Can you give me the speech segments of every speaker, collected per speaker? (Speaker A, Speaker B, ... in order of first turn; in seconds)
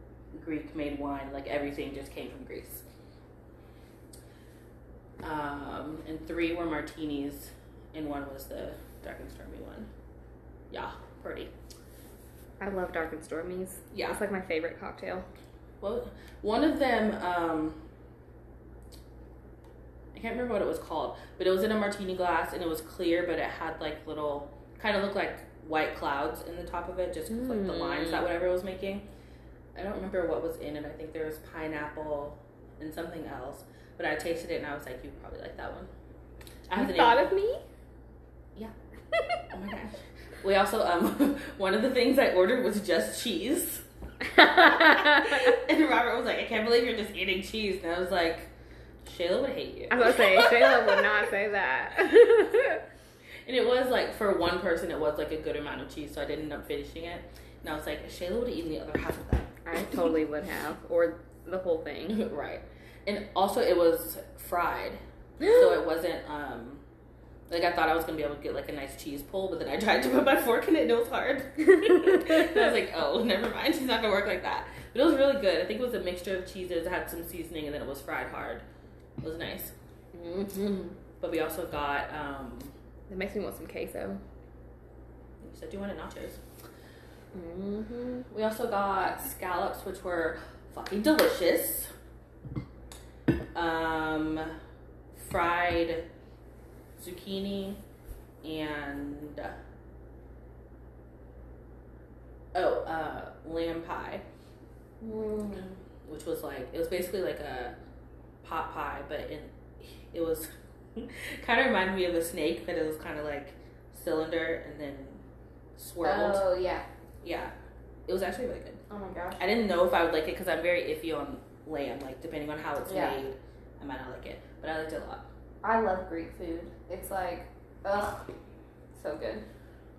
Speaker A: 0.3-2.8, 5.2-9.9, 10.7-11.5, 13.9-14.2, 15.8-17.8, 20.1-29.1, 29.7-35.9, 36.7-37.2, 39.5-43.8, 44.4-48.5, 49.0-51.1, 52.0-52.3, 53.4-59.5, 62.1-66.8, 67.5-78.6, 79.2-79.7, 81.2-82.7, 85.4-86.4, 88.3-91.9, 93.5-94.5, 95.1-96.0, 97.0-97.8, 98.4-99.5, 102.5-104.2, 106.0-107.7, 108.4-115.2, 115.8-116.5, 117.2-117.5, 118.1-118.8, 119.4-125.3
Speaker B: 12.6-15.3, 27.3-28.2, 36.7-37.6, 39.1-39.4, 44.2-45.6, 49.9-52.8, 59.6-62.2, 71.7-72.7, 80.1-81.0, 83.1-84.2, 87.3-88.3, 105.0-105.7, 116.0-116.8, 118.9-119.5, 122.8-123.2, 125.6-128.3, 128.9-129.4